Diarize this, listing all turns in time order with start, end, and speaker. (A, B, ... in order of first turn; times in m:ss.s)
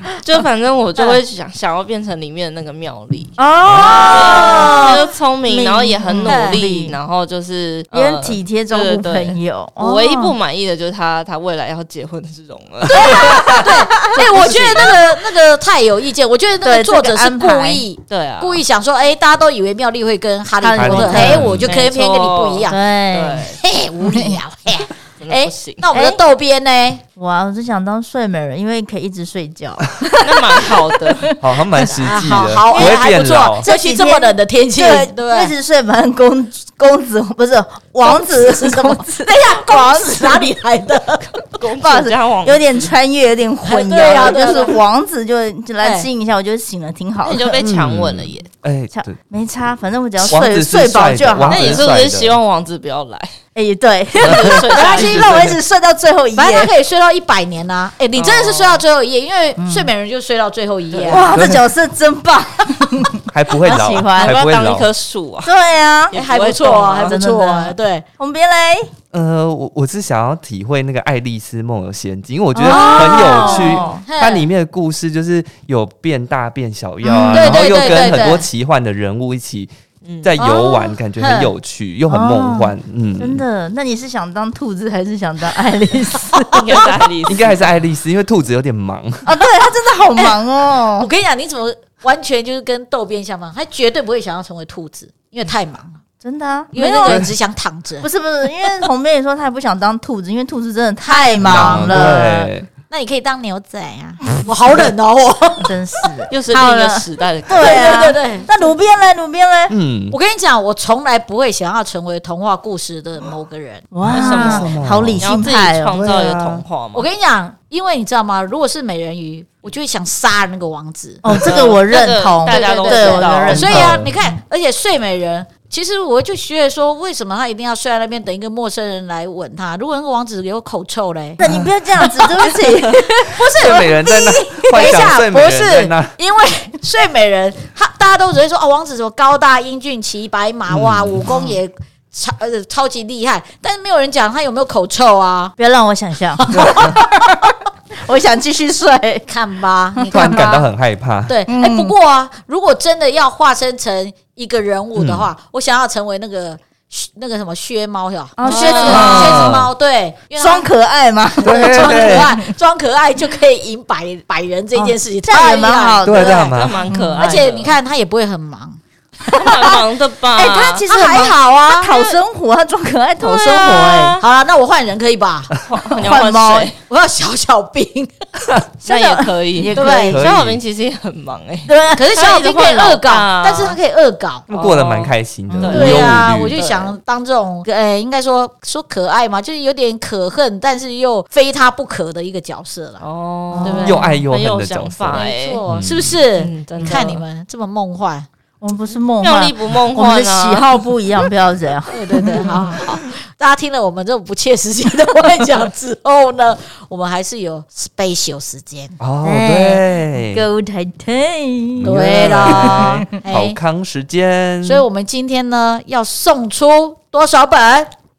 0:00.2-0:03.4 A
0:03.4-0:07.0 B
0:03.6-0:04.2 C
0:03.8-0:05.0 D
0:04.1-0:15.0 A
0:06.2-0:06.6 D
0:07.9-0:10.3 B
0:12.9-0:22.8 D
0:13.1-0:14.2 B
0:16.6-0:17.8 B
0:18.1-0:18.6 A
0:20.6-0:21.5 B
0:20.7-0:21.7 C
0:21.4-0:23.6 A
0:22.6-0:23.4 B
0:23.6-0:27.0 D
0:24.0-0:24.4 B
0:25.2-0:25.8 A
0:25.9-0:26.2 B
0:27.2-0:31.3 B
0:30.2-0:31.3 A
0:31.4-0:33.7 C
0:31.8-0:35.5 D
0:32.7-0:33.0 A
0:33.6-0:40.5 B
0:38.0-0:41.3 D
0:41.4-0:42.9 A
0:41.8-0:47.5 B
0:43.6-0:44.8 D
0:44.2-0:44.6 A
0:45.8-0:46.1 D
0:47.2-0:48.5 A
0:47.6-0:49.2 C
0:48.9-0:51.8 B
0:50.2-0:52.4 C
0:51.5-0:53.3 A
0:53.5-0:56.7 B
0:54.2-0:55.6 C
0:54.2-0:55.2 A
0:54.7-0:55.5 D
0:56.3-1:01.3 D
0:58.1-0:58.8 A
0:59.6-0:59.9 B
1:00.9-1:01.2 A
1:01.0-1:04.4 B
1:01.3-1:01.6 C
1:03.3-1:04.9 C
1:04.2-1:05.5 A
1:05.4-1:06.2 B
1:06.1-1:07.2 A
1:06.1-1:08.0 D
1:07.0-1:08.9 B
1:09.1-1:23.4 C
1:12.5-1:14.0 B
1:12.6-1:14.4 D
1:17.0-1:17.7 B
1:17.2-1:18.4 D
1:20.0-1:20.3 A
1:20.4-1:21.5 D
1:22.1-1:26.9 B
1:26.3-1:26.8 D
1:26.5-1:27.6 A
1:27.3-1:29.3 C
1:29.2-1:31.1 B
1:31.0-1:36.0 D
1:36.2-1:37.3 B
1:36.7-1:38.1 D
1:37.0-1:37.3 C
1:38.0-1:42.5 B
1:41.0-1:42.2 D
1:41.4-1:42.7 C
1:42.9-1:46.1 D
1:45.6-1:49.7 B
1:46.3-1:48.1 A
1:47.5-1:48.5 D
1:49.7-1:50.2 C
1:50.1-1:54.6 D
1:53.9-1:56.1 B
1:54.0-1:55.3 C
1:54.1-1:57.1 A
1:55.9-1:56.6 C
1:56.9-2:01.8 D
2:01.2-2:04.4 B
2:01.3-2:03.9 A
2:02.5-2:11.4 D
2:03.5-2:04.1 C
2:11.4-2:13.4 B
2:11.4-2:11.7 C
2:13.2-2:25.5 D
2:13.5-2:16.2 C
2:20.7-2:21.3 C
2:25.6-2:27.5 B
2:26.4-2:27.0 D
2:26.5-2:27.0 C
2:28.0-2:29.3 B
2:29.3-2:30.7 D
2:30.0-2:30.6 B
2:30.1-2:31.4 C
2:31.3-2:40.7 D
2:31.5-2:31.9 B
2:34.9-2:35.3 C
2:38.4-2:39.5 B
2:38.4-2:39.3 A
2:38.8-2:39.7 C
2:40.4-2:42.5 B
2:41.4-2:42.4 C
2:41.5-2:46.5 D
2:44.8-2:47.3 B
2:46.0-2:46.8 C
2:46.3-2:47.8 A
2:47.2-2:49.8 D
2:49.3-2:50.8 A
2:50.4-2:54.2 B
2:50.4-2:51.9 D
2:51.9-2:52.2 A
2:53.2-2:54.2 A
2:54.2-2:55.5 D
2:55.6-2:56.8 A
2:55.9-2:56.7 B
2:56.9-2:58.1 D
2:58.8-3:00.3 B
2:58.8-3:03.8 A
2:59.7-3:00.2 D
3:00.1-3:00.6 C
3:01.7-3:02.1 B
3:01.9-3:04.4 D
3:04.5-3:06.6 C
3:04.5-3:07.0 A
3:05.5-3:05.9 B
3:05.7-3:13.0 D
3:13.0-3:15.6 A
3:13.5-3:14.2 B
3:13.6-3:14.0 D
3:13.8-3:16.2 C
3:15.1-3:18.3 D
3:16.3-3:17.2 A
3:16.8-3:17.1 B
3:18.6-3:22.8 B
3:19.2-3:20.7 A
3:21.9-3:29.0 D
3:29.0-3:30.4 C
3:29.2-3:33.1 B
3:31.8-3:34.8 C
3:31.8-3:33.6 D
3:34.6-3:37.9 D